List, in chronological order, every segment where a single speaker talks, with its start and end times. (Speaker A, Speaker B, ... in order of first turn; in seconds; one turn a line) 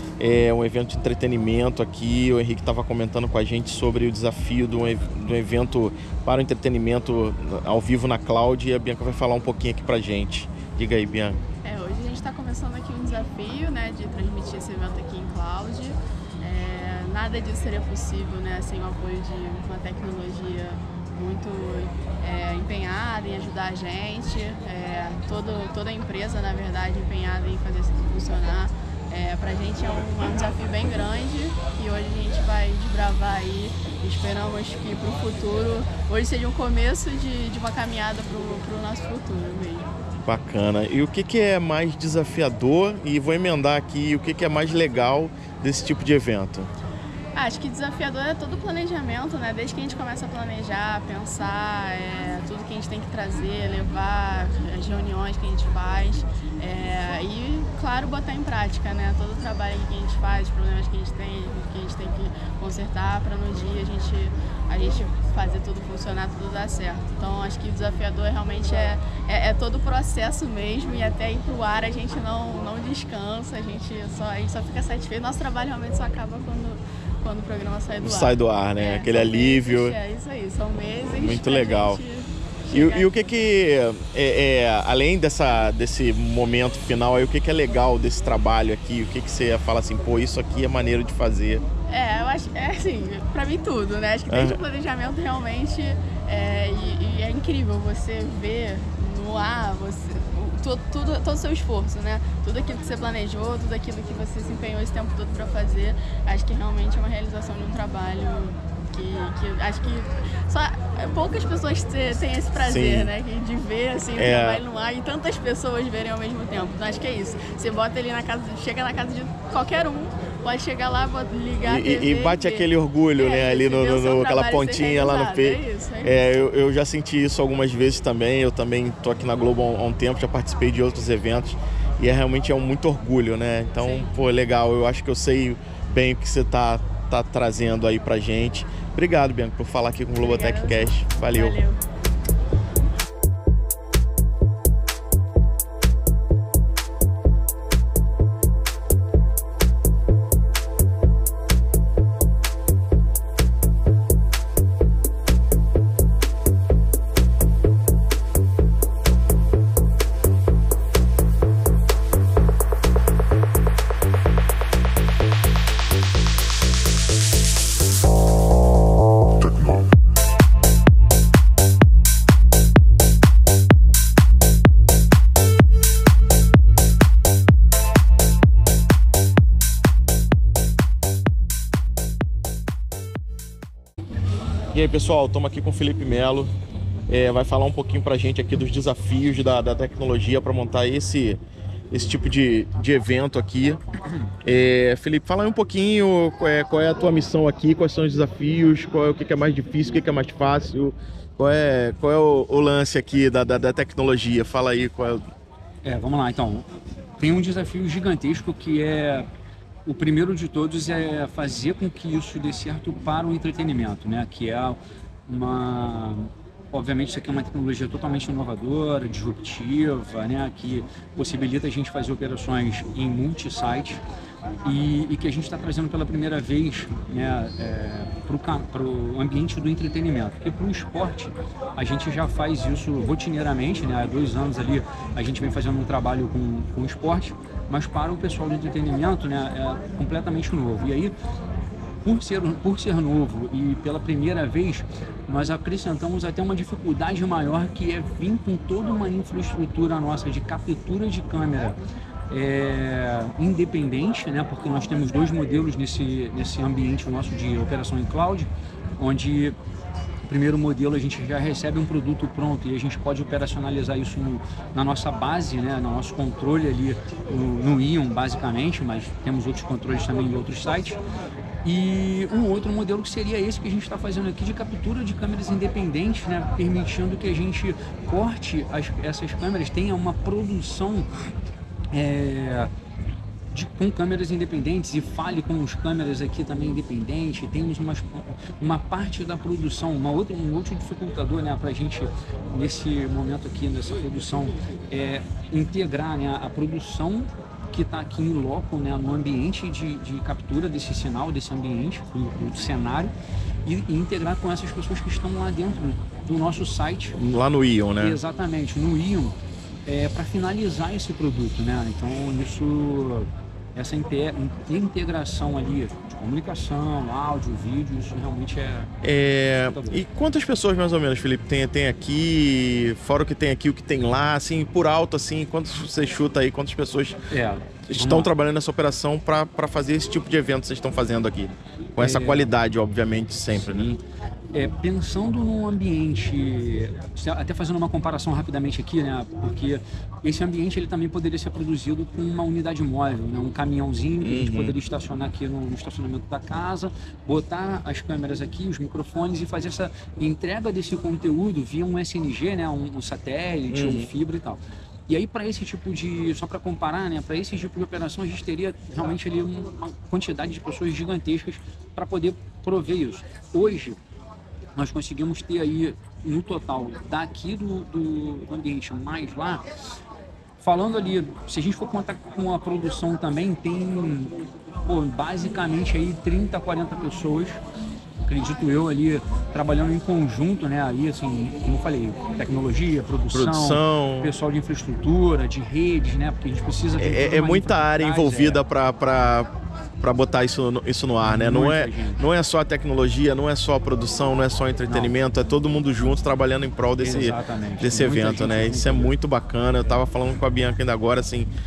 Speaker A: 0.2-11.4
Speaker B: 11.6-39.9
Speaker A: 40.2-46.7
Speaker B: 47.4-83.1
Speaker A: 78.0-80.0
Speaker A: 81.1-82.0
Speaker A: 82.7-91.6
Speaker B: 91.9-126.2
Speaker A: 94.3-94.6
Speaker A: 112.6-113.1
Speaker A: 114.1-114.6
Speaker A: 121.6-141.6
Speaker B: 133.8-134.1
Speaker B: 140.2-141.8
Speaker A: 184.7-186.5
Speaker A: 187.1-193.8
Speaker A: 194.4-205.2
Speaker C: 205.8-209.3
Speaker C: 209.8-224.0
Speaker C: 224.6-241.2
Speaker C: 242.0-251.8
Speaker C: 252.3-259.6
Speaker C: 260.2-271.0
Speaker C: 271.6-281.1
Speaker C: 281.9-282.7
Speaker C: 283.5-303.1
Speaker C: 303.6-307.2
Speaker A: 307.2-308.2
Speaker C: 308.0-309.4
Speaker C: 309.9-318.9
Speaker A: 319.0-327.2
Speaker C: 319.7-320.0
Speaker C: 327.3-328.3
Speaker A: 327.9-333.9
Speaker C: 332.0-332.5
Speaker C: 333.5-334.0
Speaker C: 334.5-364.0
Speaker A: 344.2-344.8
Speaker A: 353.7-354.1
Speaker C: 364.8-369.6
Speaker C: 370.6-374.3
Speaker C: 374.9-377.6
Speaker C: 378.3-388.6
Speaker A: 383.3-384.4
Speaker A: 387.0-401.5
Speaker C: 391.2-392.2
Speaker C: 394.9-395.1
Speaker C: 397.0-399.1